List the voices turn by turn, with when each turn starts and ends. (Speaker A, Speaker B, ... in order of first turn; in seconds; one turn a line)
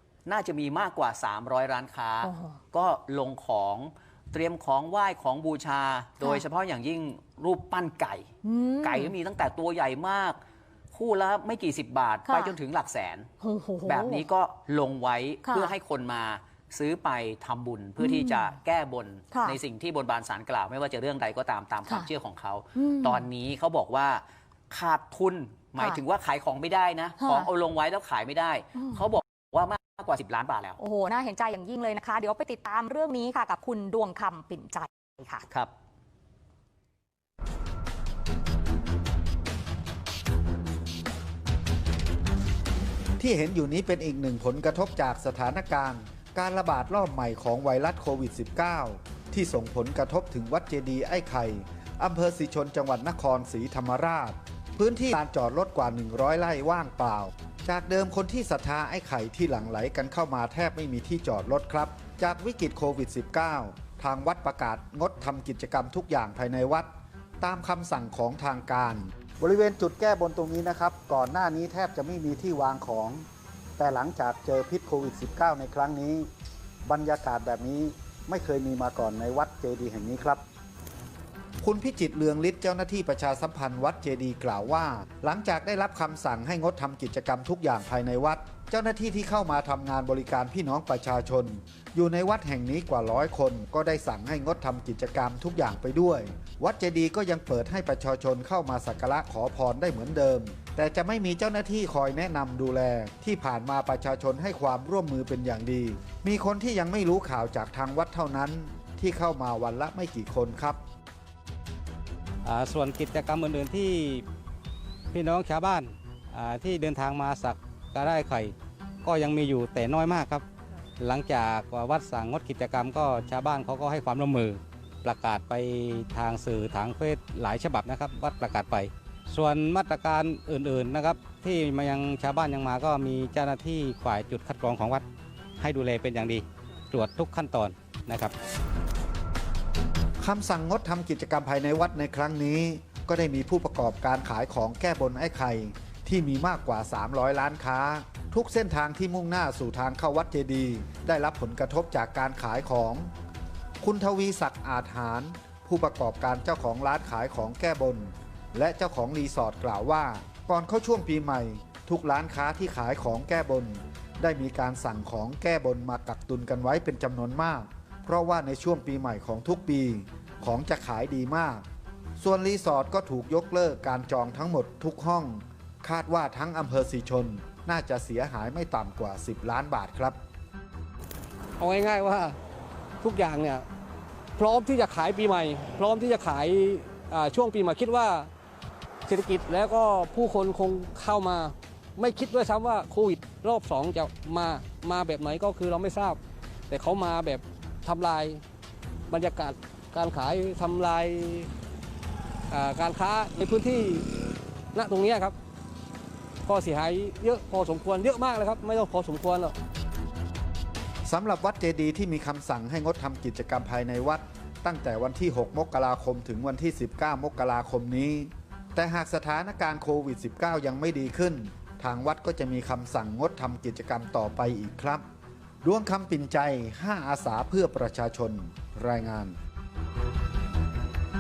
Speaker A: 0.3-8.3
Speaker B: 2.2-2.6
Speaker B: 8.4-9.1
Speaker A: 8.8-10.4
Speaker A: 10.9-13.3
Speaker B: 12.3-12.6
Speaker B: 13.4-14.3
Speaker A: 13.9-30.8
Speaker B: 15.4-15.8
Speaker B: 18.0-18.5
Speaker B: 19.3-19.6
Speaker B: 22.8-23.3
Speaker B: 27.2-27.5
Speaker B: 30.8-35.5
Speaker C: 43.2-66.9
Speaker C: 67.4-73.2
Speaker C: 73.8-76.3
Speaker C: 76.9-80.4
Speaker C: 81.6-110.8
Speaker D: 112.4-114.2
Speaker D: 115.1-120.4
Speaker D: 121.0-135.1
Speaker D: 135.6-138.3
Speaker C: 140.2-153.1
Speaker C: 153.8-171.7
Speaker C: 172.2-180.2
Speaker E: 181.6-182.4
Speaker E: 183.0-183.7
Speaker E: 184.4-188.3
Speaker E: 189.1-198.4
Speaker E: 199.1-201.5
Speaker E: 202.5-204.1
Speaker E: 204.7-205.3
Speaker E: 206.5-209.6
Speaker C: 211.1-225.0
Speaker C: 225.6-229.4